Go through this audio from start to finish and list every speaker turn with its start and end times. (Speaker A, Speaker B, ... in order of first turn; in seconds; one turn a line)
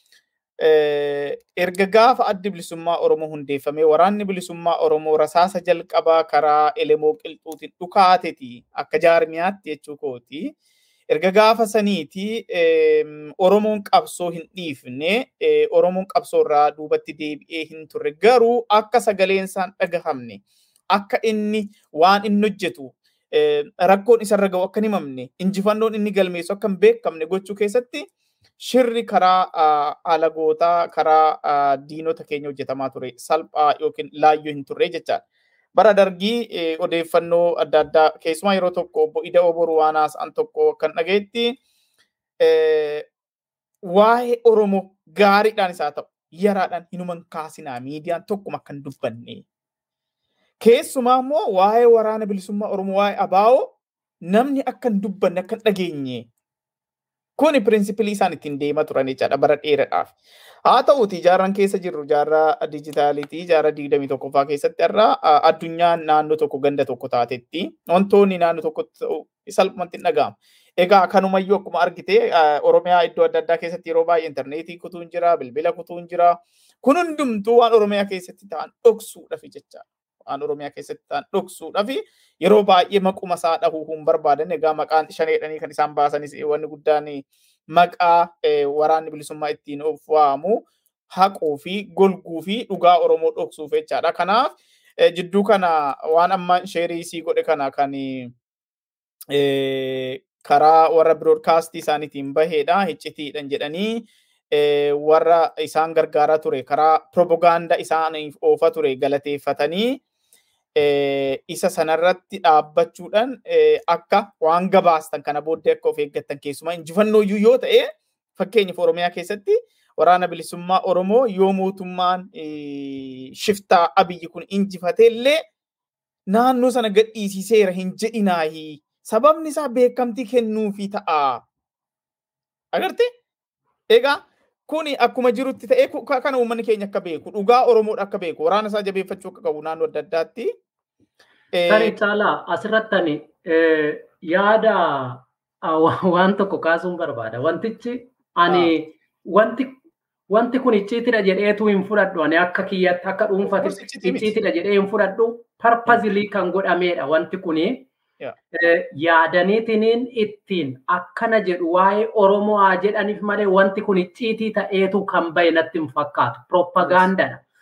Speaker A: 0.6-10.5
Speaker A: 11.1-28.1
Speaker A: 28.6-35.2
Speaker A: 35.8-41.6
Speaker A: 42.4-43.1
Speaker A: 43.9-49.5
Speaker A: 50.6-53.8
Speaker A: 54.3-56.3
Speaker A: 57.4-60.1
Speaker A: 60.7-98.3
Speaker A: 99.3-110.0
Speaker A: 110.8-125.4
Speaker A: 126.3-131.4
Speaker A: 132.7-133.1
Speaker A: 133.9-140.5
Speaker A: 141.5-142.0
Speaker B: 141.7-149.8
Speaker A: 148.5-148.7
Speaker B: 150.3-157.9
Speaker A: 153.4-154.3
Speaker B: 158.6-167.4
Speaker A: 166.8-167.1